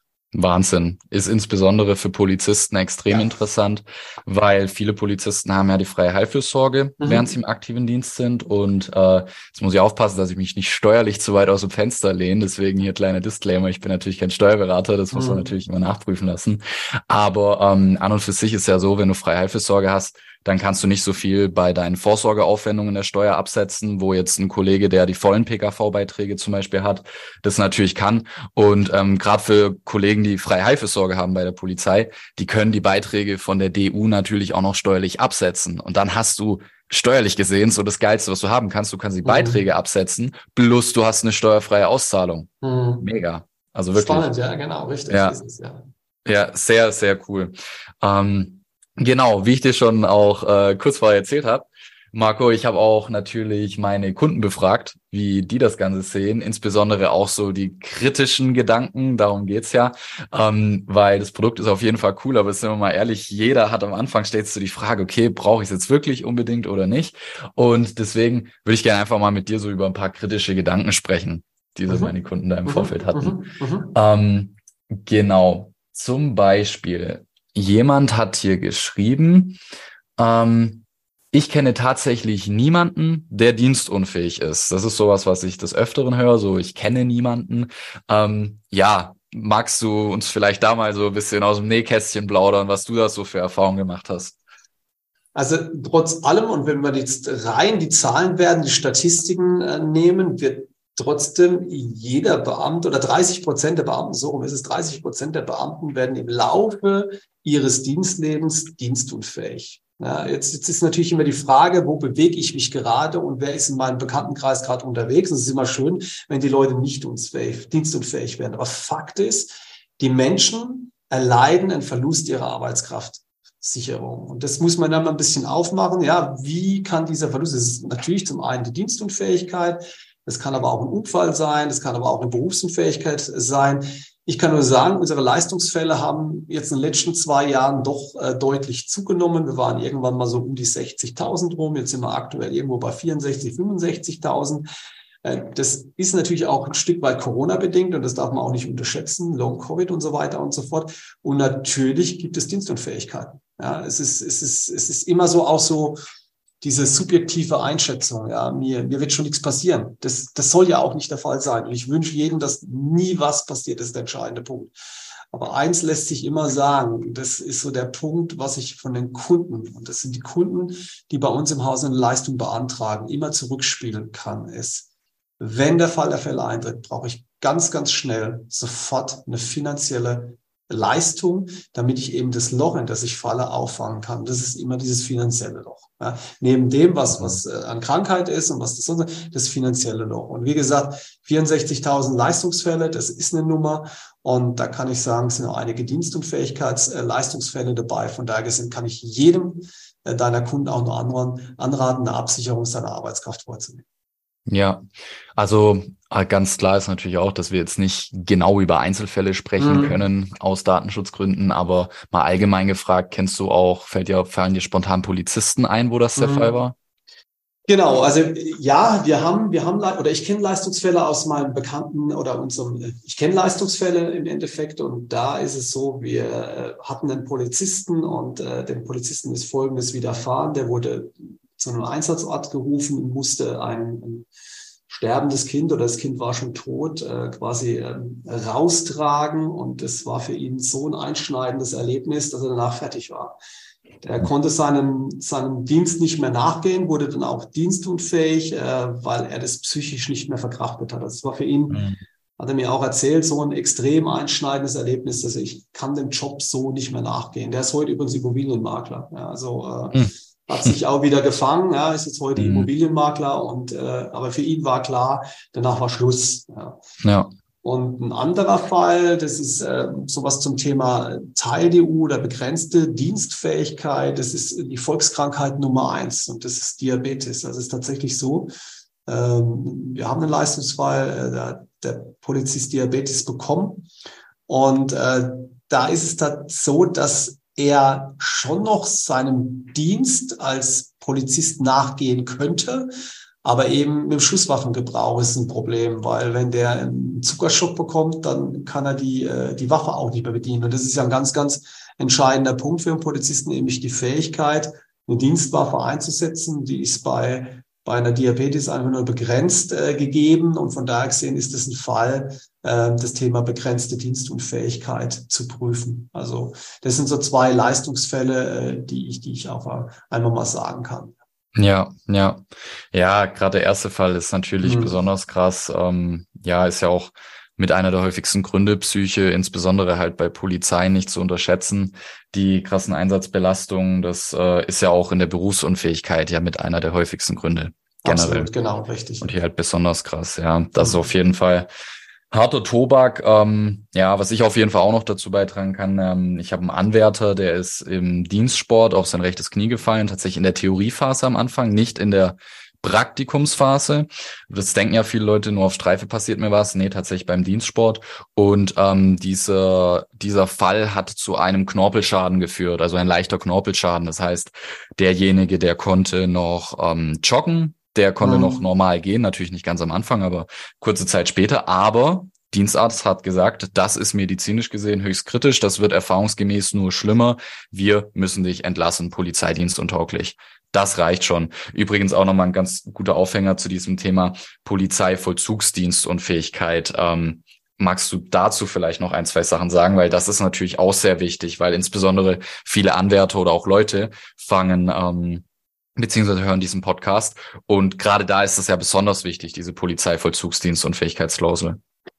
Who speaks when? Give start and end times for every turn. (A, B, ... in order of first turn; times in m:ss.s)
0:00.3-0:44.3 A
0:07.0-0:07.3 B
0:15.1-0:15.5 B
0:39.2-0:39.6 B
0:42.6-0:43.0 B
0:44.0-0:45.9 B
0:45.1-0:45.4 A
0:46.3-1:13.4 A
1:11.9-1:12.1 B
1:12.7-1:13.9 B
1:13.9-1:19.6 A
1:20.2-1:34.4 A
1:35.4-2:24.7 B
2:25.2-2:36.0 B
2:36.6-2:44.7 B
2:45.3-2:54.9 B
2:55.4-3:23.8 B
3:24.5-3:24.8 A
3:25.4-3:36.8 A
3:29.6-3:30.0 B
3:36.2-3:36.5 B
3:37.7-3:54.3 B
3:54.9-4:03.4 B
4:04.0-4:11.9 B
4:11.7-4:12.0 A
4:12.4-4:26.8 B
4:22.4-4:22.7 A
4:27.0-4:27.3 A
4:27.6-4:38.5 B
4:39.1-4:43.9 B
4:44.5-4:52.9 B
4:53.4-5:21.2 B
5:21.6-5:22.4 A
5:22.9-5:38.5 A
5:24.6-5:25.0 B
5:38.0-5:39.3 B
5:39.2-5:41.7 A
5:42.3-6:35.4 A
6:08.2-6:08.6 B
6:36.0-6:41.8 A